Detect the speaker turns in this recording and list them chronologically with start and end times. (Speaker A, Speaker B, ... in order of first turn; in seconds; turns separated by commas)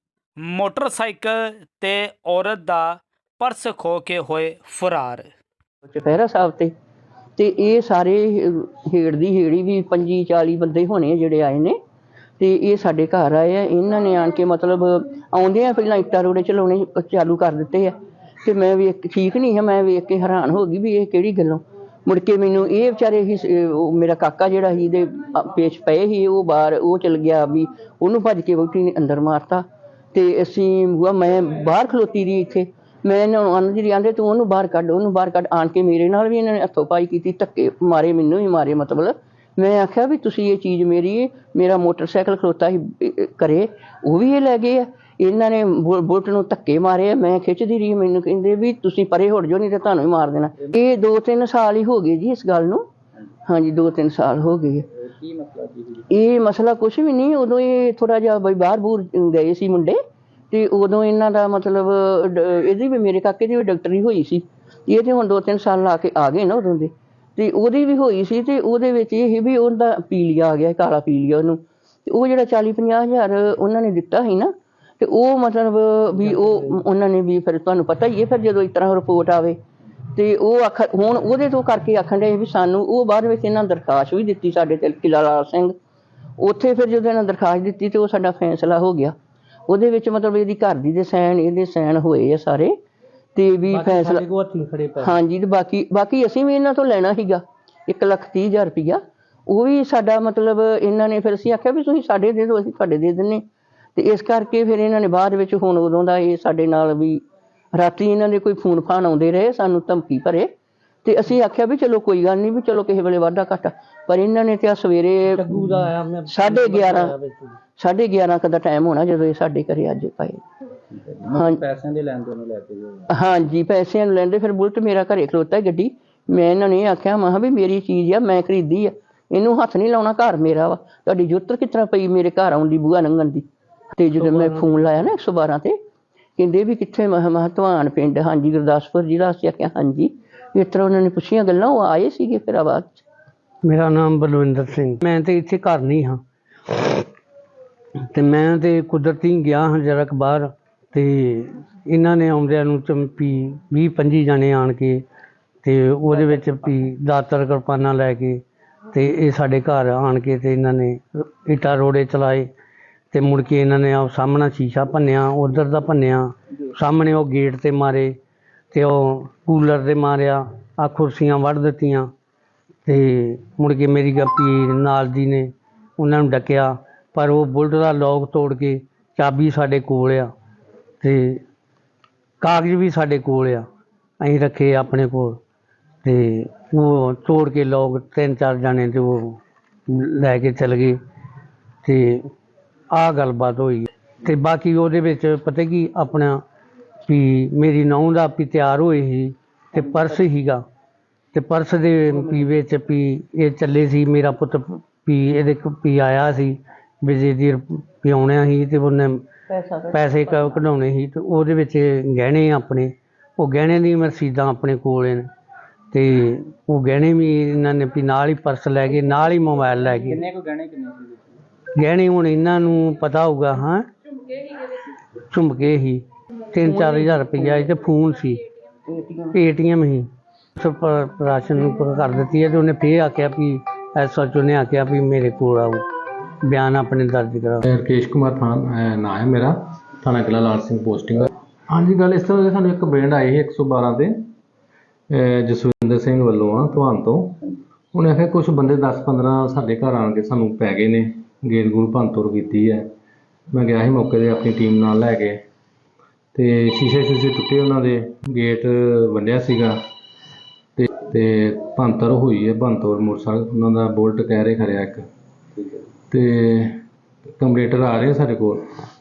Speaker A: 0.4-5.3, Speaker B: 5.9-6.7, Speaker B: 7.4-11.8, Speaker B: 12.4-17.9, Speaker B: 18.4-52.9, Speaker B: 53.5-54.8, Speaker C: 55.0-56.1, Speaker B: 56.1-60.0, Speaker B: 60.5-79.6, Speaker D: 76.1-76.8, Speaker B: 80.2-85.7, Speaker B: 86.4-89.1, Speaker B: 89.7-92.7, Speaker B: 93.4-94.3, Speaker D: 93.7-95.2, Speaker B: 95.0-103.4, Speaker B: 104.0-107.2, Speaker B: 107.7-110.5, Speaker B: 111.0-117.2, Speaker D: 115.3-117.6, Speaker B: 117.8-120.4, Speaker C: 121.0-123.1, Speaker B: 123.1-135.8, Speaker D: 134.2-134.8, Speaker B: 136.4-143.0, Speaker D: 143.6-147.1, Speaker D: 148.1-155.0, Speaker D: 155.6-162.5, Speaker D: 163.1-168.2, Speaker D: 168.7-172.1, Speaker D: 172.9-180.3, Speaker D: 181.0-181.4, Speaker D: 182.4-183.7, Speaker D: 184.2-185.4, Speaker D: 186.0-191.0, Speaker D: 191.8-192.3, Speaker D: 192.9-196.4, Speaker D: 197.1-200.6, Speaker D: 201.3-209.2, Speaker B: 202.2-202.4, Speaker B: 209.5-210.6, Speaker D: 209.9-215.3, Speaker D: 215.9-220.2, Speaker C: 219.9-221.4, Speaker D: 221.8-223.9, Speaker D: 225.3-228.4, Speaker B: 226.7-227.7, Speaker B: 228.9-229.3, Speaker D: 229.3-235.8, Speaker D: 236.4-237.6, Speaker E: 237.6-244.3, Speaker E: 245.1-252.9, Speaker E: 253.5-255.4, Speaker E: 256.3-259.8, Speaker E: 260.8-265.1, Speaker E: 266.1-266.8, Speaker E: 267.4-268.6